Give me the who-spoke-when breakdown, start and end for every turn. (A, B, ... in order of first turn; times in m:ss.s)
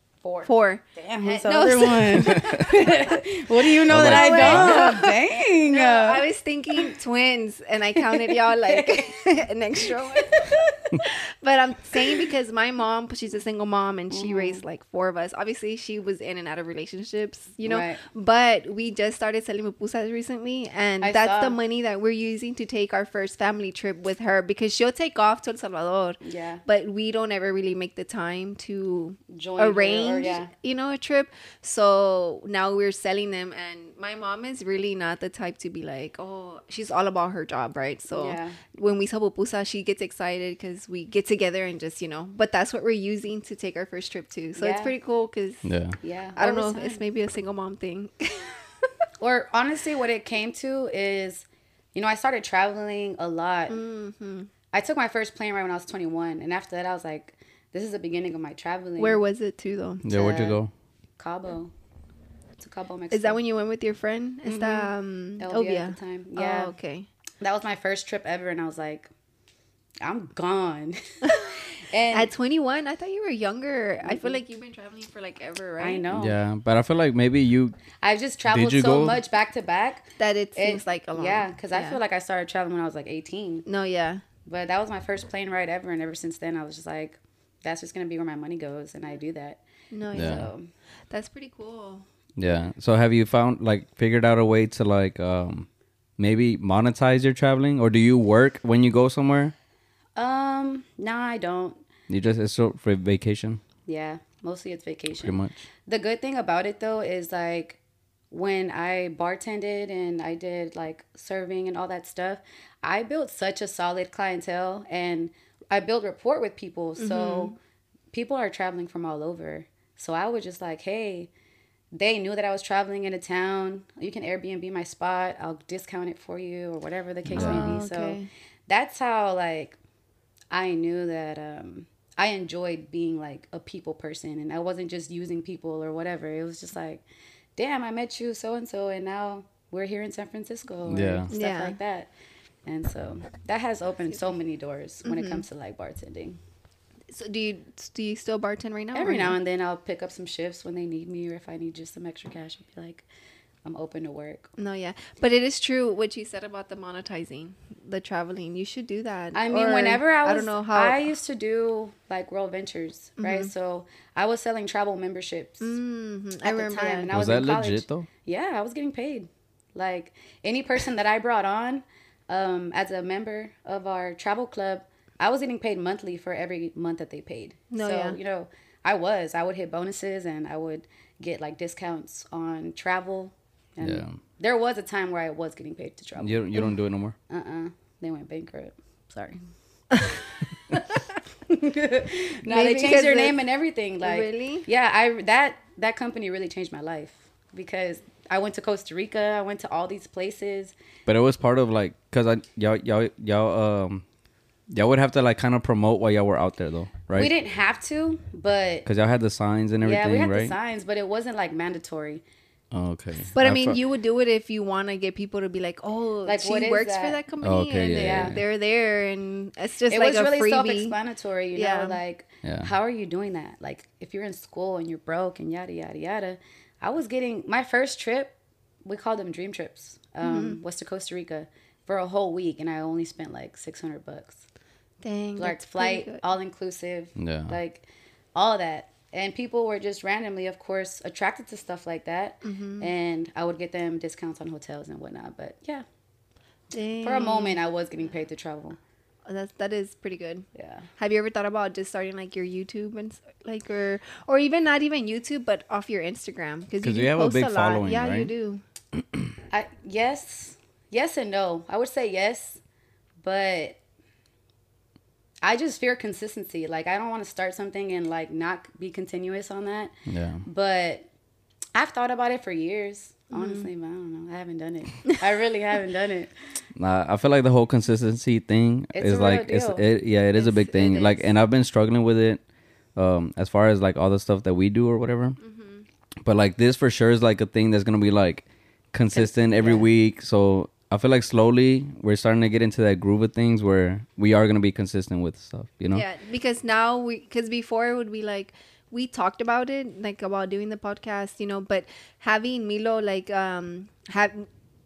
0:00.2-0:06.2 A
0:00.4-0:03.2 B
0:02.3-0:02.6 C
0:03.9-0:04.8 C
0:04.0-0:45.7 B
0:08.3-0:09.1 A
0:14.1-0:14.6 A
0:17.6-0:18.0 A
0:21.0-0:21.6 A
0:26.2-0:26.6 A
0:29.3-0:30.5 A
0:38.1-0:38.6 A
0:44.6-0:44.9 A
0:45.6-0:46.0 C
0:46.0-0:47.0 A
0:46.4-0:48.7 B
0:49.2-0:53.8 A
0:53.7-0:54.5 B
0:54.7-0:59.2 A
0:59.0-1:00.0 B
1:00.0-1:00.7 C
1:00.1-1:00.6 A
1:01.2-1:01.7 A
1:02.6-1:03.4 A
1:03.1-1:07.1 B
1:04.4-1:06.7 A
1:07.4-1:09.1 A
1:10.0-1:12.3 A
1:11.2-1:16.0 B
1:14.0-1:14.4 A
1:15.8-1:16.4 A
1:16.1-1:17.8 C
1:18.0-1:23.6 A
1:18.5-1:19.2 C
1:20.2-1:22.0 B
1:23.6-1:24.2 B
1:24.4-1:30.7 A
1:29.9-1:30.6 B
1:30.1-1:30.4 C
1:31.1-1:32.0 B
1:32.4-1:35.7 C
1:36.2-1:39.5 C
1:40.2-1:41.8 A
1:42.1-1:43.6 C
1:43.8-1:47.8 A
1:45.2-1:45.6 C
1:48.3-1:57.5 A
1:57.0-1:57.6 B
1:58.1-2:01.3 A
2:01.9-2:09.8 A
2:07.2-2:07.8 C
2:07.4-2:08.3 B
2:10.5-2:17.0 A
2:17.6-2:22.1 A
2:20.9-2:21.3 C
2:21.3-2:21.8 B
2:22.6-2:26.4 A
2:25.0-2:25.4 B
2:27.1-2:29.4 B
2:28.9-2:33.0 A
2:33.6-2:34.5 A
2:34.6-2:41.1 B
2:39.3-2:45.8 A
2:43.2-2:43.5 B
2:45.6-2:47.1 B
2:46.4-3:06.6 A
2:47.1-2:48.1 C
2:57.7-2:58.2 B
3:03.8-3:04.2 C
3:06.2-3:07.2 C
3:07.3-3:09.4 A
3:11.4-3:20.7 A
3:12.5-3:13.4 B
3:14.0-3:14.6 B
3:21.1-3:24.0 C
3:24.7-3:27.3 C
3:27.1-3:28.9 A
3:28.8-3:30.6 C
3:29.8-3:32.2 A
3:32.7-3:33.8 C
3:33.3-3:41.0 B
3:36.2-3:37.2 A
3:37.4-3:38.4 C
3:37.9-3:38.4 A
3:39.9-3:54.4 A
3:41.5-3:42.0 B
3:42.4-3:42.7 C
3:50.2-3:50.6 B
3:55.0-3:56.2 B
3:55.4-4:05.8 A
3:57.2-3:57.6 C
4:02.4-4:02.9 B
4:06.7-4:07.6 B
4:07.0-4:08.8 A
4:09.2-4:10.4 B
4:10.5-4:10.9 A
4:11.0-4:18.6 B
4:16.8-4:18.3 C
4:19.5-4:22.6 A
4:23.2-4:23.8 A
4:25.4-4:31.0 A
4:30.1-4:30.4 C
4:31.7-4:36.3 A
4:33.3-4:33.7 B
4:36.8-4:42.4 C
4:38.9-4:39.8 A
4:40.3-4:41.3 B
4:43.0-4:45.4 C
4:45.4-4:45.8 B
4:46.2-4:56.0 C
4:49.1-4:49.8 A
4:55.9-5:04.5 B